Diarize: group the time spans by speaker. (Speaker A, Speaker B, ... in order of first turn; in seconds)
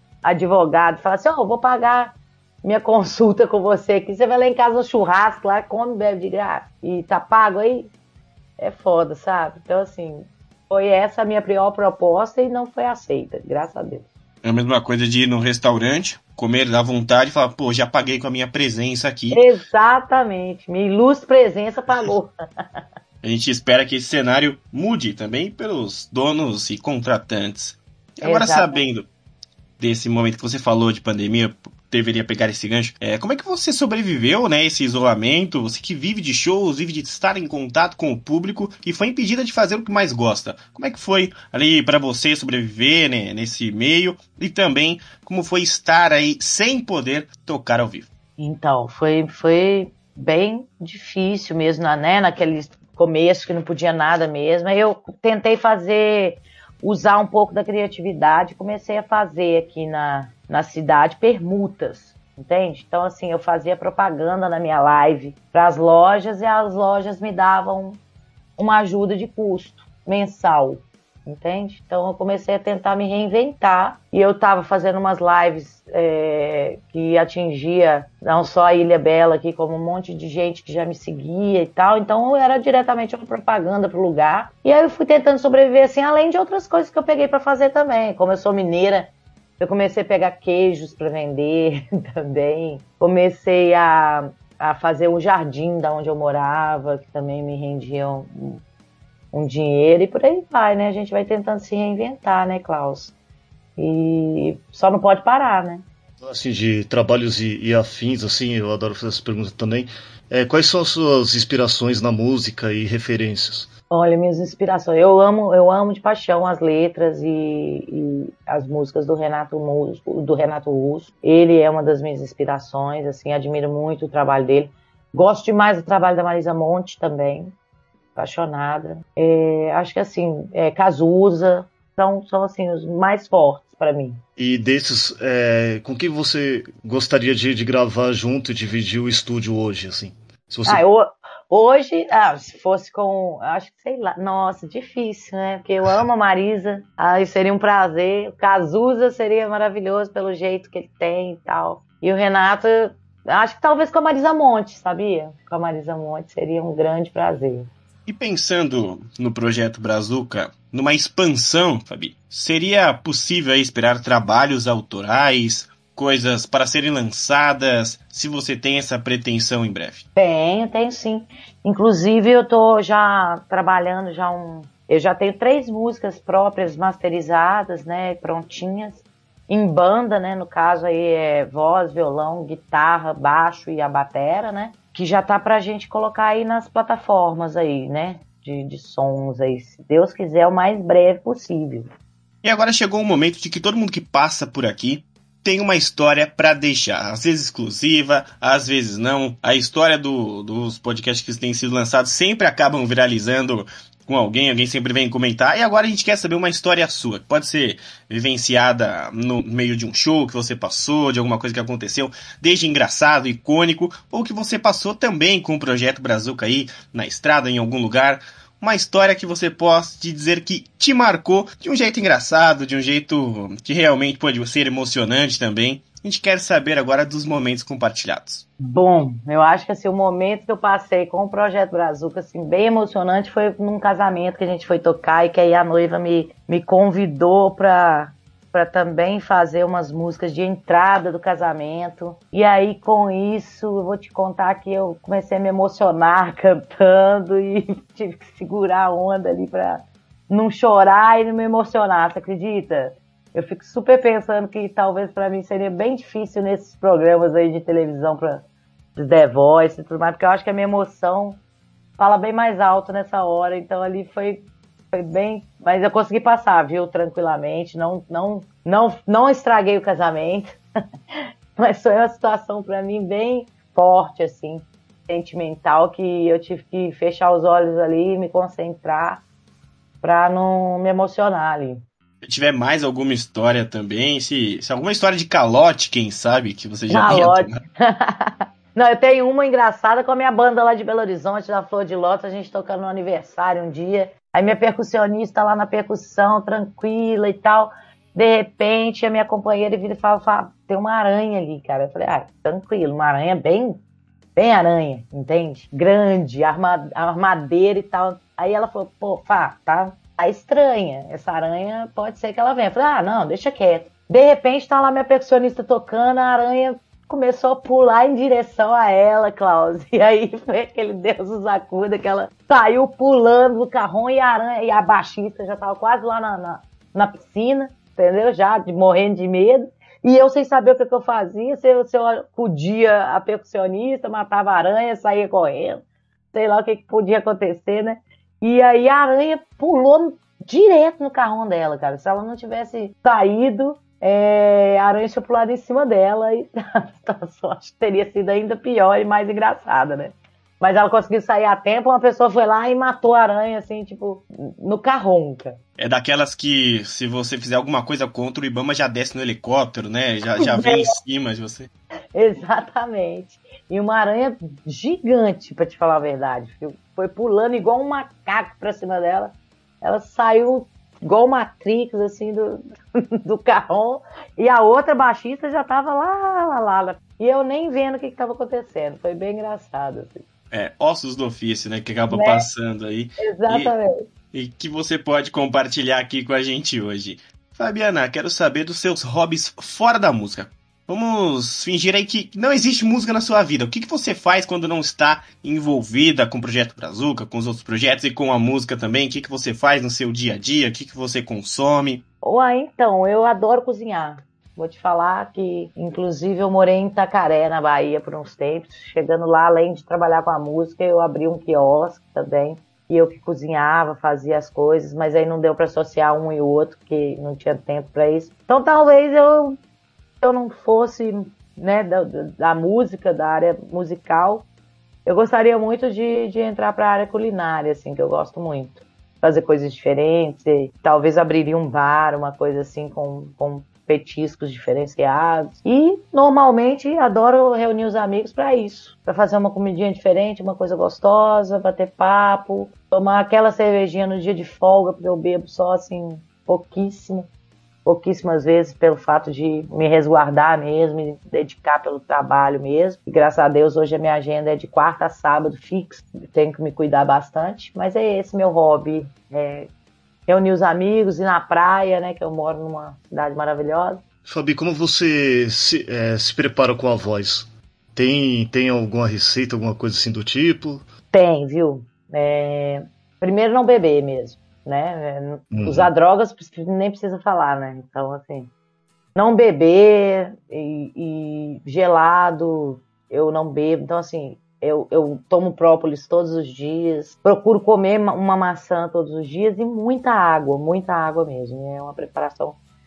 Speaker A: 0.2-7.9, 8.6-14.1, 19.3-22.3, 28.2-28.8, 48.4-68.0, 68.6-98.6, 99.3-103.1, 103.8-105.8, 113.9-127.5, 128.1-134.2, 140.7-157.7, 170.2-191.9, 228.6-258.4, 258.9-261.4, 262.0-270.6, 271.6-279.2, 280.0-281.8, 286.9-303.8, 304.4-335.8, 336.3-355.6, 360.4-360.9, 362.1-372.6, 373.2-380.2, 382.1-382.5, 383.2-384.0, 402.2-419.6, 420.2-424.5, 425.1-447.3, 447.8-459.7, 460.3-464.0, 471.1-478.5, 479.1-492.6
Speaker B: 14.4-19.4, 23.2-29.1, 29.8-48.1, 158.1-170.0, 192.4-228.4, 282.2-287.6, 355.8-361.7, 380.5-383.7, 384.3-402.0
Speaker C: 106.2-113.7, 134.4-140.8, 464.2-470.8, 475.5-475.9